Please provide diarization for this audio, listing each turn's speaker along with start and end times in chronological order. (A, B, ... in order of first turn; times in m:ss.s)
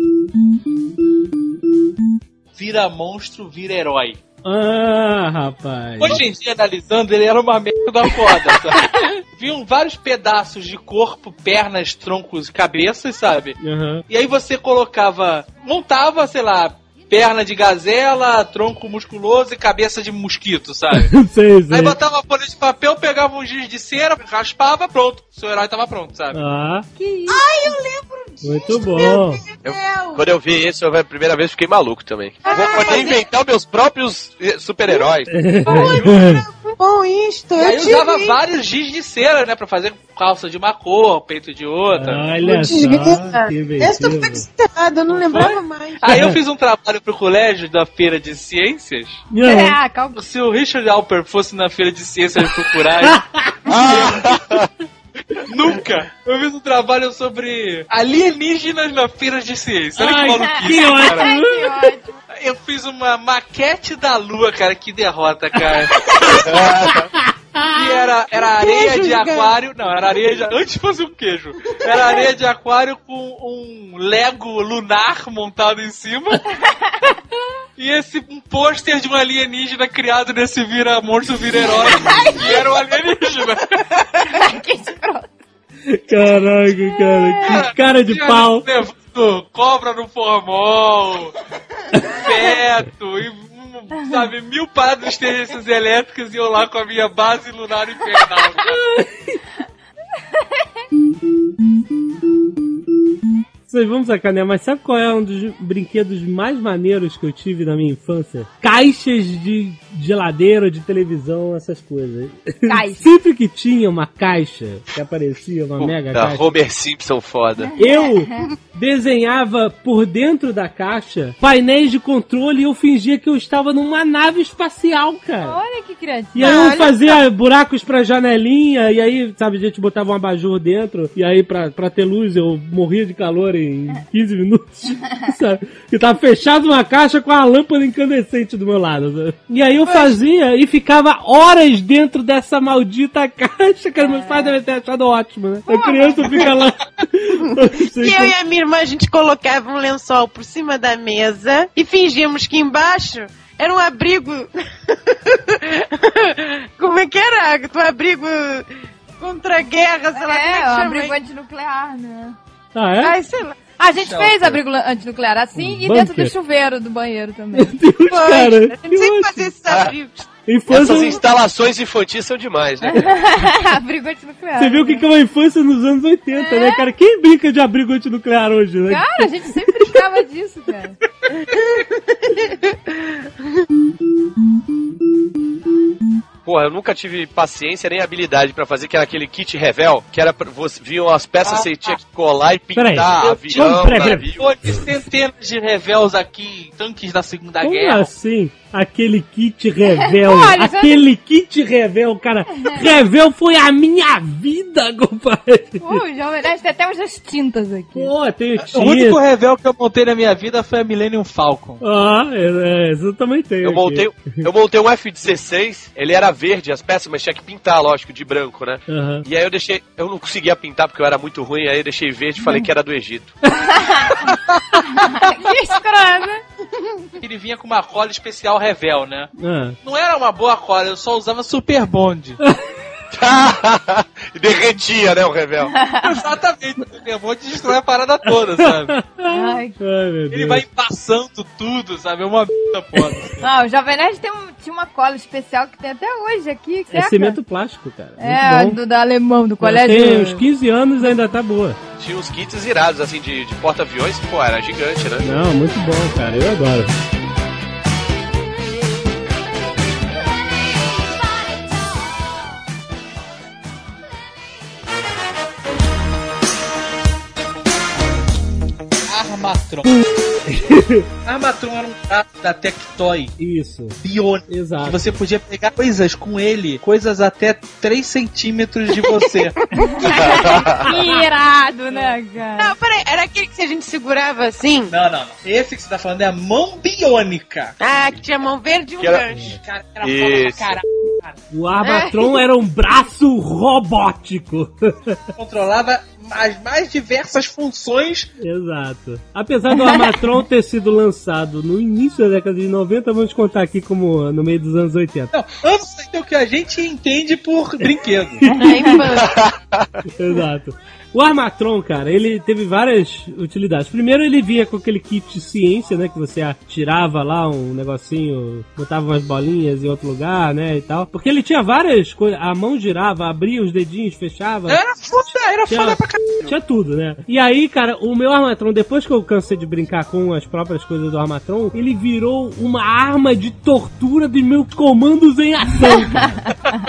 0:02.6-0:04.2 A
0:04.4-0:06.2 B
0:06.0-0:13.6 A
0:08.8-0:09.1 B
0:13.6-0:14.0 B
0:14.1-0:21.1 A
0:20.9-0:22.0 B
0:21.7-0:26.4 A
0:26.3-0:26.9 B
0:27.0-0:27.4 C
0:27.3-0:30.2 D
0:28.4-0:29.4 B
0:29.6-0:36.1 E
0:32.4-0:33.3 D
0:35.3-0:36.4 B
0:35.6-0:38.4 D
0:37.6-0:42.4 A
0:41.9-0:44.4 B
0:42.4-0:46.3 D
0:45.2-0:49.2 A
0:49.3-0:49.8 B
0:49.4-0:50.2 C
0:50.2-0:53.2 A
0:53.0-0:53.6 B
0:53.7-0:54.7 E
0:55.5-1:01.3 A
1:00.0-1:01.9 B
1:00.4-1:02.1 C
1:02.3-1:06.1 A
1:06.4-1:07.1 E
1:06.9-1:07.8 B
1:07.6-1:16.4 A
1:08.3-1:09.5 D
1:11.7-1:12.2 D
1:16.7-1:17.2 C
1:17.8-1:23.8 A
1:22.0-1:22.6 C
1:24.2-1:25.3 C
1:25.9-1:28.7 B
1:26.9-1:27.6 C
1:27.4-1:31.4 A
1:31.9-1:32.2 B
1:32.1-1:38.8 A
1:38.6-1:39.4 B
1:43.7-1:56.4 B
1:52.6-1:53.1 C
1:55.8-1:57.7 E
1:57.8-2:05.6 B
2:05.4-2:06.9 C
2:06.3-2:28.3 B
2:06.4-2:07.2 D
2:19.8-2:20.2 D
2:24.0-2:24.6 C
2:25.7-2:26.4 C
2:27.9-2:41.1 D
2:40.2-2:42.4 C
2:42.8-2:43.2 B
2:43.0-2:43.6 D
2:43.8-2:47.7 C
2:44.0-2:44.4 A
2:45.6-2:46.3 B
2:47.6-2:49.5 B
2:48.1-2:50.3 D
2:50.5-2:51.2 B
2:50.7-2:53.1 E
2:53.0-2:55.0 C
2:54.6-2:59.3 B
2:56.3-2:56.8 C
2:58.9-3:01.0 C
3:01.5-3:03.6 D
3:06.4-3:14.5 E
3:12.8-3:14.3 B
3:13.2-3:18.1 A
3:17.6-3:26.0 B
3:20.1-3:21.0 C
3:25.8-3:28.1 C
3:28.0-3:29.2 B
3:28.6-3:31.8 A
3:31.8-3:34.4 B
3:33.6-3:43.4 E
3:38.9-3:39.2 B
3:43.8-3:46.4 C
3:47.2-3:49.3 A
3:49.4-3:49.8 B
3:49.8-3:52.4 A
3:53.1-3:55.7 E
3:55.8-3:56.1 C
3:56.0-3:59.0 A
3:58.4-4:00.6 B
3:59.3-3:59.8 C
4:00.3-4:03.4 A
4:03.4-4:07.4 C
4:06.9-4:08.8 B
4:08.2-4:10.4 C
4:09.6-4:11.8 B
4:12.0-4:15.3 E
4:15.2-4:16.9 B
4:29.1-4:29.9 A
4:30.0-4:31.1 B
4:31.3-4:33.4 A
4:33.4-4:34.0 B
4:34.0-4:39.6 A
4:34.5-4:35.0 B
4:39.8-4:42.7 C
4:40.1-4:40.9 E
4:42.6-4:44.9 D
4:44.9-4:47.8 A
4:47.8-4:49.6 D
4:49.0-4:49.2 E
4:49.4-4:51.4 A
4:50.0-4:50.8 E
4:51.5-4:55.2 B
4:51.8-4:52.3 D
4:55.4-4:58.3 A
4:58.4-5:05.3 B
4:59.7-5:00.0 C
5:05.3-5:08.4 A
5:08.4-5:09.0 B
5:08.5-5:09.5 D
5:09.1-5:10.0 E
5:10.2-5:24.8 B
5:24.7-5:26.5 A
5:25.7-5:36.6 B